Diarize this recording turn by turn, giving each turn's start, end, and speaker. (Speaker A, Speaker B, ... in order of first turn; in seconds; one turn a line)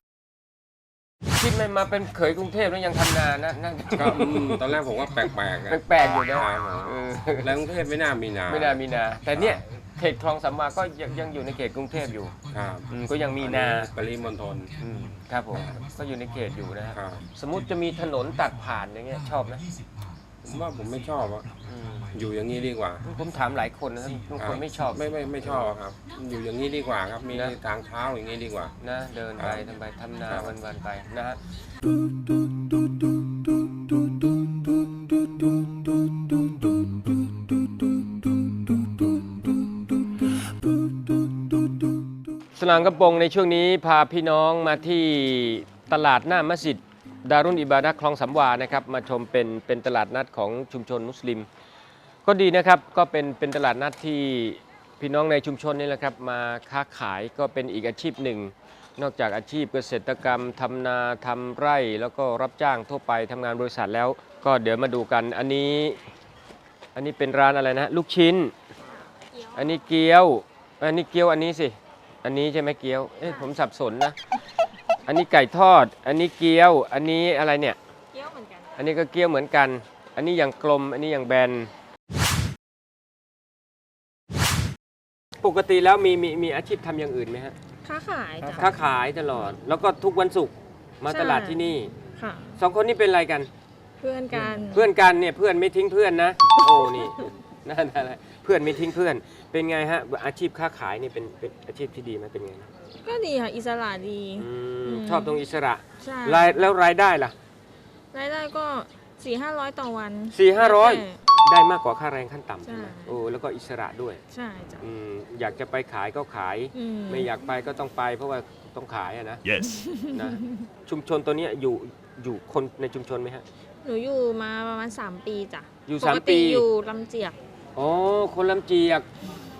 Speaker A: 1.4-4.7
Speaker B: 3.9-8.8
Speaker A: 5.7-7.5
Speaker A: 8.5-12.3
Speaker B: 9.3-9.6
Speaker B: 12.5-12.9
Speaker A: 12.9-13.9
Speaker B: 13.4-14.7
Speaker A: 14.8-19.6
Speaker B: 16.9-17.2
Speaker B: 20.4-21.5
Speaker A: 21.6-22.1
Speaker B: 22.1-23.1
Speaker A: 23.0-25.7
Speaker B: 24.4-28.7
Speaker A: 28.8-31.4
Speaker B: 29.4-29.7
Speaker B: 30.3-30.6
Speaker A: 42.6-51.5
Speaker A: 52.2-66.0
Speaker A: 67.0-68.5
Speaker C: 68.9-69.8
Speaker A: 69.6-74.2
Speaker A: 75.1-77.8
Speaker C: 78.1-78.7
Speaker A: 78.8-81.7
Speaker A: 85.4-87.6
Speaker C: 87.8-88.8
Speaker A: 88.5-91.9
Speaker C: 91.1-91.6
Speaker C: 92.1-92.6
Speaker A: 92.6-93.5
Speaker C: 94.0-94.9
Speaker A: 94.6-102.7
Speaker C: 103.0-105.4
Speaker A: 104.4-107.3
Speaker C: 106.0-106.7
Speaker C: 108.1-111.2
Speaker A: 110.3-114.2
Speaker C: 112.7-113.2
Speaker C: 114.3-114.8
Speaker A: 114.8-119.4
Speaker C: 116.8-117.3
Speaker C: 119.6-120.7
Speaker A: 120.1-123.5
Speaker C: 123.8-127.4
Speaker A: 125.9-126.7
Speaker A: 127.8-129.1